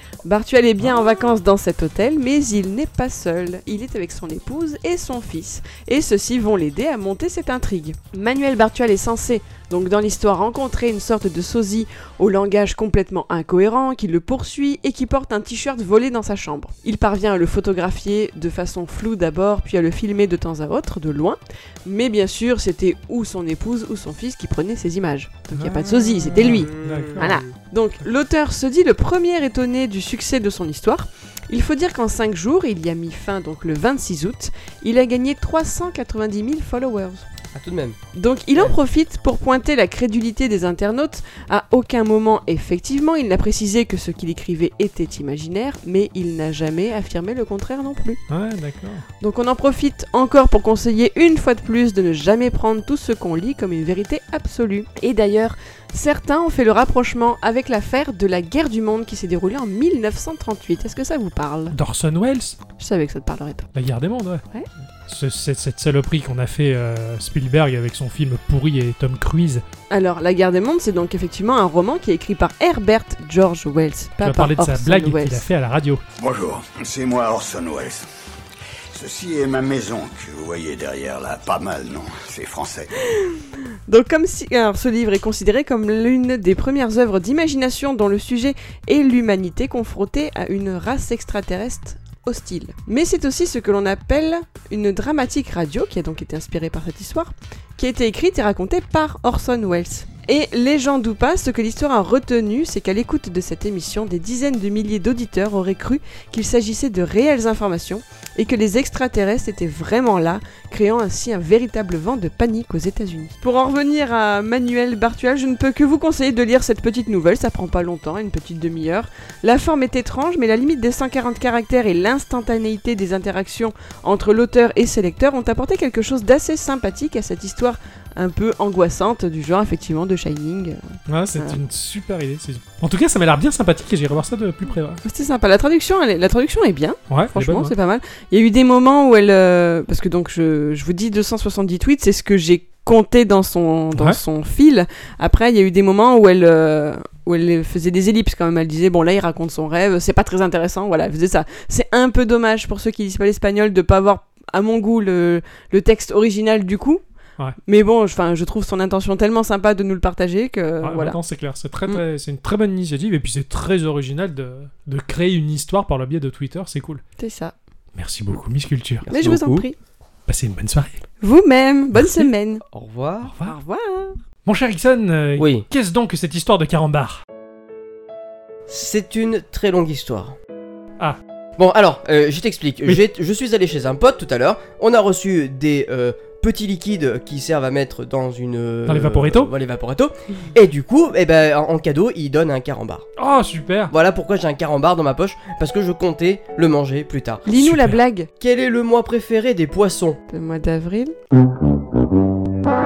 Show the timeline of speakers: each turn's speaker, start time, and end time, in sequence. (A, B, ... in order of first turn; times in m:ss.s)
0:00.2-0:37.3 A
0:25.5-0:27.4 B
0:26.4-0:27.2 C
0:37.5-0:38.0 C
0:38.1-0:48.2 A
0:48.3-0:49.0 B
0:49.2-1:01.8 A
1:01.7-1:02.6 B
1:02.8-1:03.7 A
1:03.7-1:04.4 B
1:05.0-1:09.6 B
1:09.9-1:15.4 A
1:14.2-1:16.0 B
1:16.2-1:18.0 D
1:18.9-1:23.0 D
1:23.9-2:11.6 A
2:11.1-2:15.0 B
2:15.0-2:37.0 A
2:17.1-2:17.7 B
2:23.9-2:24.2 B
2:37.6-2:41.2 A
2:40.8-2:47.0 B
2:47.2-2:47.5 A
2:47.9-2:49.1 B
2:49.0-2:49.7 C
2:49.1-2:49.7 A
2:50.3-2:51.0 B
2:51.2-2:52.6 A
2:51.9-2:52.3 B
2:52.7-2:53.3 C
2:53.2-2:53.6 B
2:53.4-2:54.2 A
2:54.4-2:57.2 B
2:55.4-2:55.6 C
2:58.7-3:00.4 C
3:01.6-3:13.0 C
3:08.8-3:09.5 B
3:13.2-3:13.9 B
3:13.9-3:17.4 C
3:17.4-3:18.3 A
3:17.5-3:18.0 B
3:18.4-3:20.2 C
3:20.3-3:21.1 A